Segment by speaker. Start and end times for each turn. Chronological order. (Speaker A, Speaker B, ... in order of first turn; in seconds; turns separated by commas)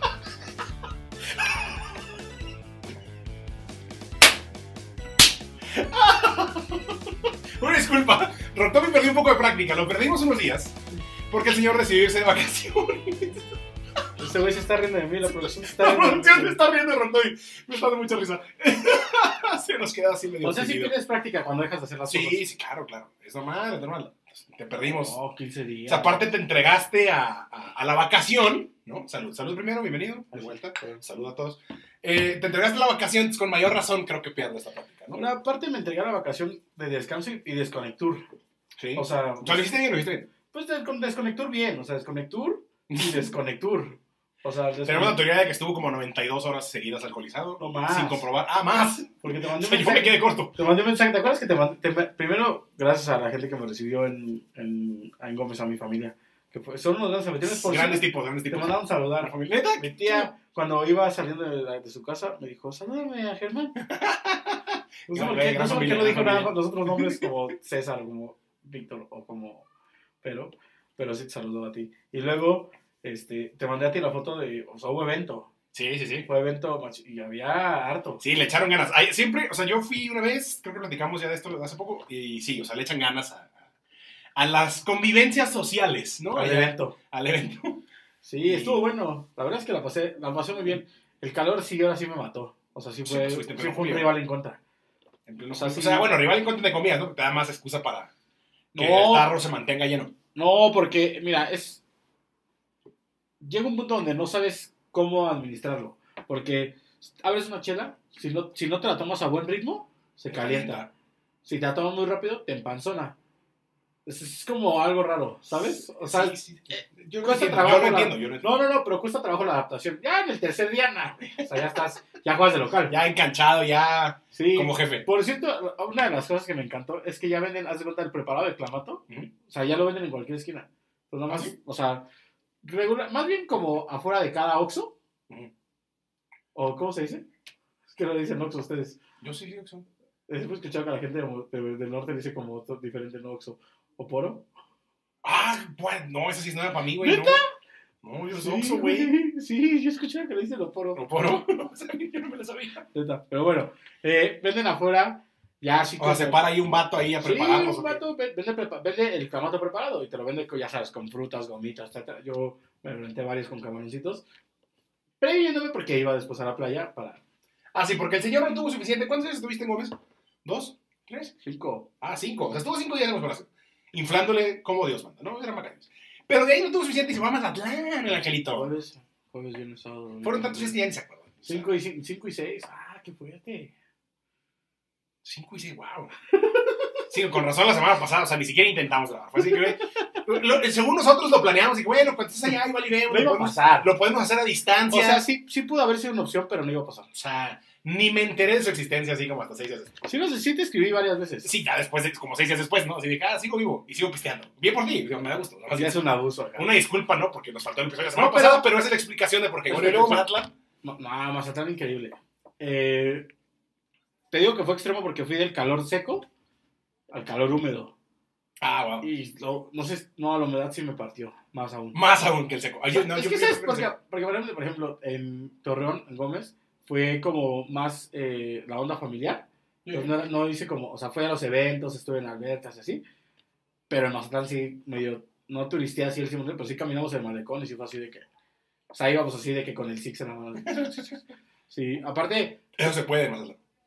Speaker A: 1.4-1.8, Speaker A: 5.7-7.0, Speaker A: 7.6-10.8, Speaker A: 11.3-13.5, Speaker B: 14.2-16.6, Speaker A: 15.6-20.9, Speaker B: 20.4-22.4, Speaker A: 22.1-25.2, Speaker B: 24.8-26.3, Speaker A: 25.9-35.2, Speaker B: 30.3-31.0, Speaker B: 35.1-38.3, Speaker A: 38.8-40.3, Speaker B: 39.0-39.7, Speaker B: 40.5-45.2, Speaker A: 42.9-43.3, Speaker A: 44.9-50.5, Speaker B: 47.6-48.3, Speaker B: 49.2-63.8, Speaker A: 57.4-60.3, Speaker A: 63.8-67.3, Speaker B: 65.1-69.7, Speaker B: 70.2-75.5, Speaker A: 75.7-76.3, Speaker B: 76.3-78.2, Speaker A: 78.2-83.5, Speaker A: 84.4-87.8, Speaker B: 86.3-87.0, Speaker B: 88.2-94.6, Speaker A: 88.5-88.8, Speaker A: 93.0-94.1, Speaker A: 95.3-98.1, Speaker B: 95.5-96.2, Speaker B: 98.7-99.3, Speaker A: 98.8-100.1, Speaker B: 100.3-101.8, Speaker B: 103.4-110.8, Speaker A: 110.3-110.9, Speaker B: 111.5-113.2, Speaker B: 114.1-123.0, Speaker A: 115.5-118.6, Speaker A: 122.9-125.1, Speaker B: 124.3-132.1, Speaker A: 131.3-131.5, Speaker B: 132.6-134.9, Speaker B: 136.6-137.3, Speaker B: 137.9-139.0, Speaker A: 139.2-139.9, Speaker B: 140.3-144.5, Speaker A: 145.2-147.4, Speaker B: 147.0-147.4, Speaker A: 148.0-149.1, Speaker B: 148.3-151.2, Speaker A: 150.9-152.9, Speaker B: 152.9-156.4, Speaker A: 156.0-158.0, Speaker B: 157.2-164.2, Speaker B: 165.2-167.2, Speaker A: 167.7-171.3, Speaker B: 171.4-171.9, Speaker A: 172.0-178.7, Speaker B: 178.5-180.8, Speaker A: 180.2-181.7, Speaker B: 181.4-183.7, Speaker A: 185.2-186.1, Speaker A: 187.1-195.2, Speaker B: 193.1-193.9, Speaker B: 194.9-197.1, Speaker A: 197.1-199.9, Speaker B: 200.0-201.5, Speaker A: 201.4-206.0, Speaker B: 205.7-206.7, Speaker A: 206.6-210.5, Speaker B: 208.1-208.7, Speaker B: 209.7-210.3, Speaker B: 210.8-213.3, Speaker B: 214.3-216.3, Speaker B: 217.1-217.9, Speaker A: 218.6-219.1, Speaker B: 219.0-222.0, Speaker A: 221.9-223.9, Speaker B: 222.9-233.0, Speaker A: 229.8-230.2, Speaker B: 233.9-238.2, Speaker B: 238.9-240.9, Speaker A: 240.6-241.2, Speaker B: 241.7-242.7, Speaker A: 242.8-243.6